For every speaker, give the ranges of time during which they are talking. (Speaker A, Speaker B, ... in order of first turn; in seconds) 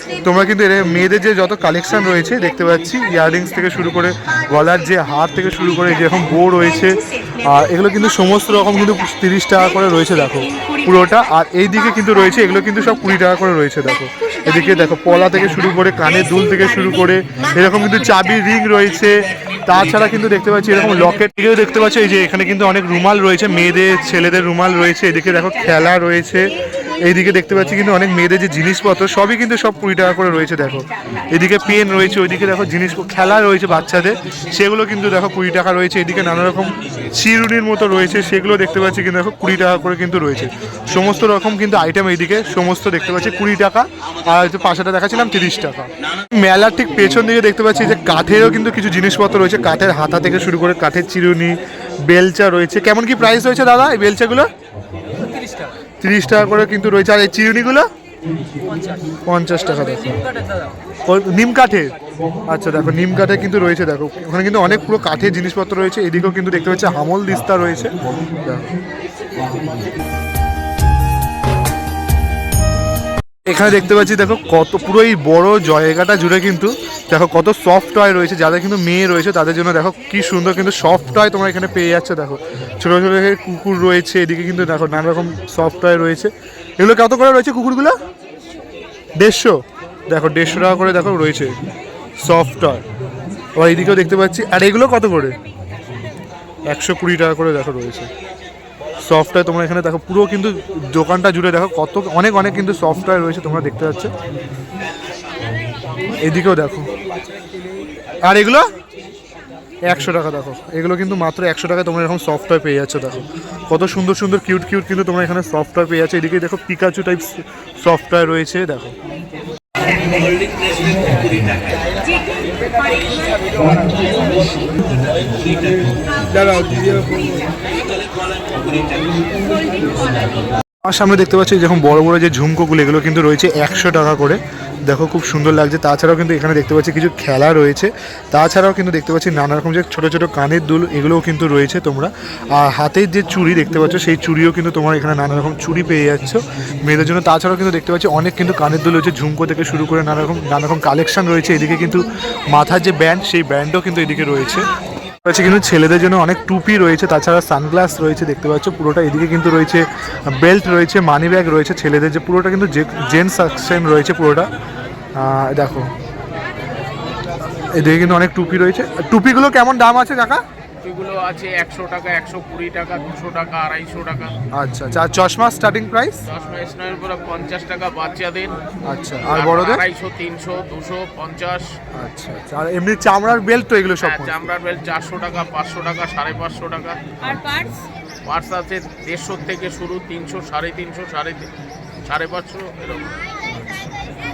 Speaker A: 0.2-54.5, 56.0-57.9, 59.3-60.2, 61.0-68.7, 73.5-88.0, 89.2-91.6, 92.2-92.8, 93.6-95.4, 96.7-98.1, 99.0-104.1, 106.2-106.9, 108.2-108.7, 109.9-119.0, 126.3-127.0, 130.8-154.7, 155.2-164.5, 165.2-165.9, 167.7-170.4, 174.5-176.2, 178.8-179.8, 181.9-184.5, 193.5-193.9
Speaker B: 170.8-174.4, 176.4-178.6, 179.3-181.7, 184.0-187.7, 188.2-191.5, 192.0-193.2